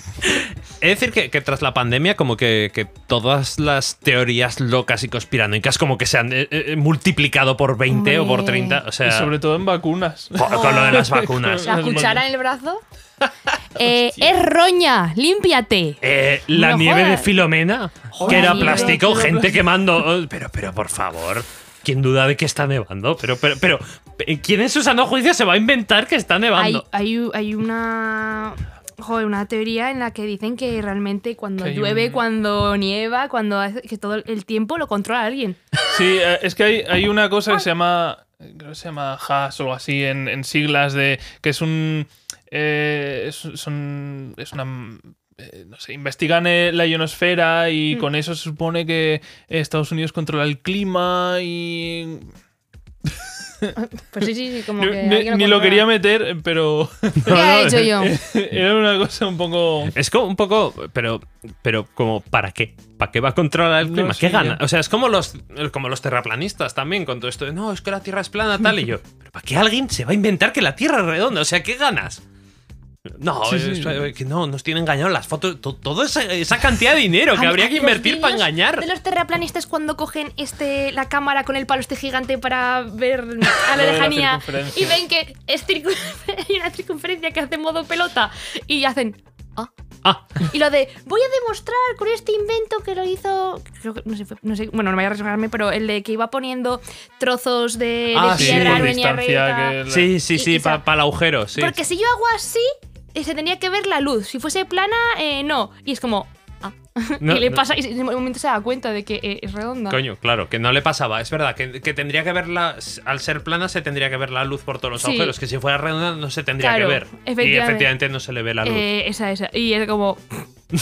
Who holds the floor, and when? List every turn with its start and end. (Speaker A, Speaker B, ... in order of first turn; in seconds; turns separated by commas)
Speaker A: 0.2-9.3, Speaker B: 7.9-8.8, Speaker C: 9.0-12.2, Speaker A: 10.4-12.2, Speaker B: 10.5-11.1, Speaker B: 11.6-12.8, Speaker B: 13.8-17.4, Speaker A: 16.0-26.8, Speaker B: 18.1-19.5, Speaker C: 18.2-19.5, Speaker B: 26.6-35.6, Speaker C: 31.6-32.2, Speaker C: 35.9-52.3, Speaker B: 53.7-55.9, Speaker C: 54.8-60.0, Speaker A: 57.2-58.0, Speaker B: 57.3-58.1, Speaker A: 59.9-72.2, Speaker C: 63.8-64.6, Speaker A: 73.1-78.9, Speaker C: 73.5-74.1, Speaker B: 77.3-89.7, Speaker C: 83.6-85.0, Speaker A: 90.0-90.3, Speaker B: 90.4-99.8, Speaker A: 98.1-99.0, Speaker C: 98.3-100.1, Speaker A: 99.9-101.8, Speaker B: 100.3-100.8, Speaker B: 101.6-110.0, Speaker A: 107.2-107.6, Speaker A: 109.9-118.9, Speaker B: 115.0-115.4, Speaker B: 116.6-117.9, Speaker B: 118.6-120.4